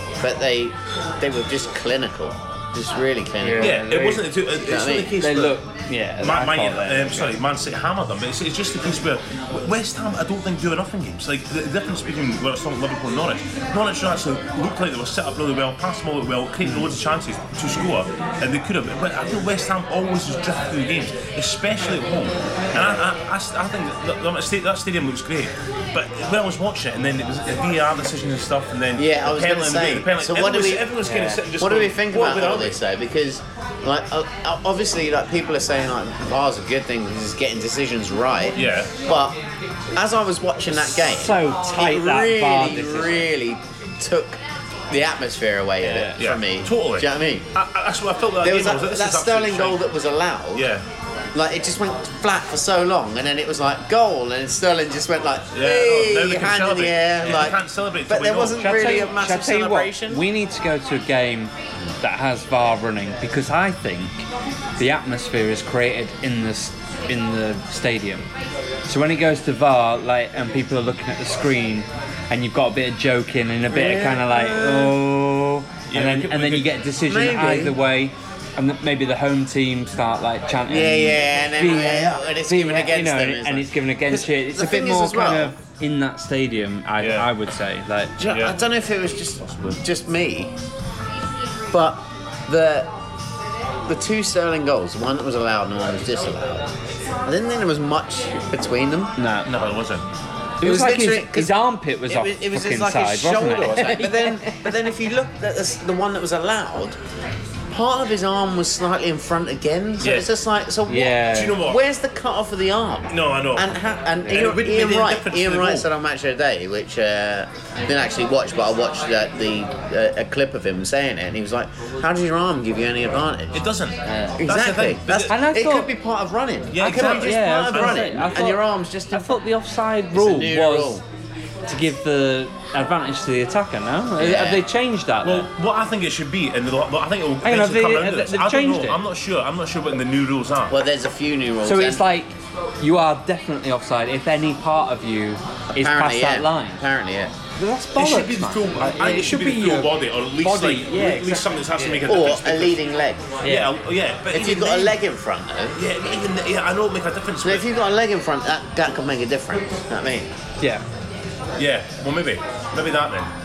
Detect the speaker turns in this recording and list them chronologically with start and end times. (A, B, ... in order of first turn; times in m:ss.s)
0:00.2-0:03.8 A
0:03.4-0:04.3 B
0:03.6-0:05.6 C
0:04.6-0:05.1 A
0:05.2-0:07.3 B
0:06.2-0:32.8 C
0:16.6-0:16.9 B
0:22.7-0:23.0 A
0:29.0-0:30.9 A
0:31.0-0:31.4 B
0:31.6-0:39.4 A
0:38.5-0:38.9 C
0:40.0-0:44.4 A
0:40.8-0:43.2 B
0:44.9-0:47.4 A
0:45.8-0:46.2 B
0:46.2-0:49.8 C
0:48.4-0:50.7 A
0:50.5-0:50.8 C
0:51.3-1:00.2 A
0:55.5-0:59.0 C
0:58.6-1:04.1 B
1:04.8-1:08.2 B
1:08.9-1:28.2 B
1:13.7-1:14.9 A
1:15.9-1:16.8 C
1:17.0-1:17.8 A
1:20.7-1:25.5 A
1:27.0-1:27.3 C
1:28.2-1:30.5 A
1:28.2-1:28.6 C
1:29.4-1:29.8 C
1:31.7-1:32.9 A
1:33.9-1:36.7 A
1:37.2-1:39.4 A
1:39.4-1:40.0 C
1:40.6-1:44.7 B
1:40.6-1:41.6 A
1:42.1-1:47.0 A
1:47.7-2:03.6 A
1:50.0-1:50.3 C
1:50.9-1:51.6 B
1:51.3-1:51.8 C
1:53.1-1:55.9 C
2:03.5-2:05.3 C
2:04.3-2:09.4 A
2:05.3-2:05.9 B
2:06.7-2:08.4 C
2:06.8-2:11.0 B
2:10.1-2:11.0 A
2:11.7-2:15.5 B
2:14.2-2:14.6 A
2:15.2-2:20.8 C
2:17.4-2:19.0 B
2:20.7-2:22.0 A
2:21.6-2:26.8 B
2:25.7-2:27.3 A
2:27.6-2:32.0 B
2:28.0-2:32.8 C
2:32.1-2:33.2 A
2:33.4-2:33.7 B
2:33.4-2:35.0 C
2:34.3-2:35.8 A
2:35.7-2:37.6 C
2:37.4-2:40.3 A
2:41.6-2:43.3 C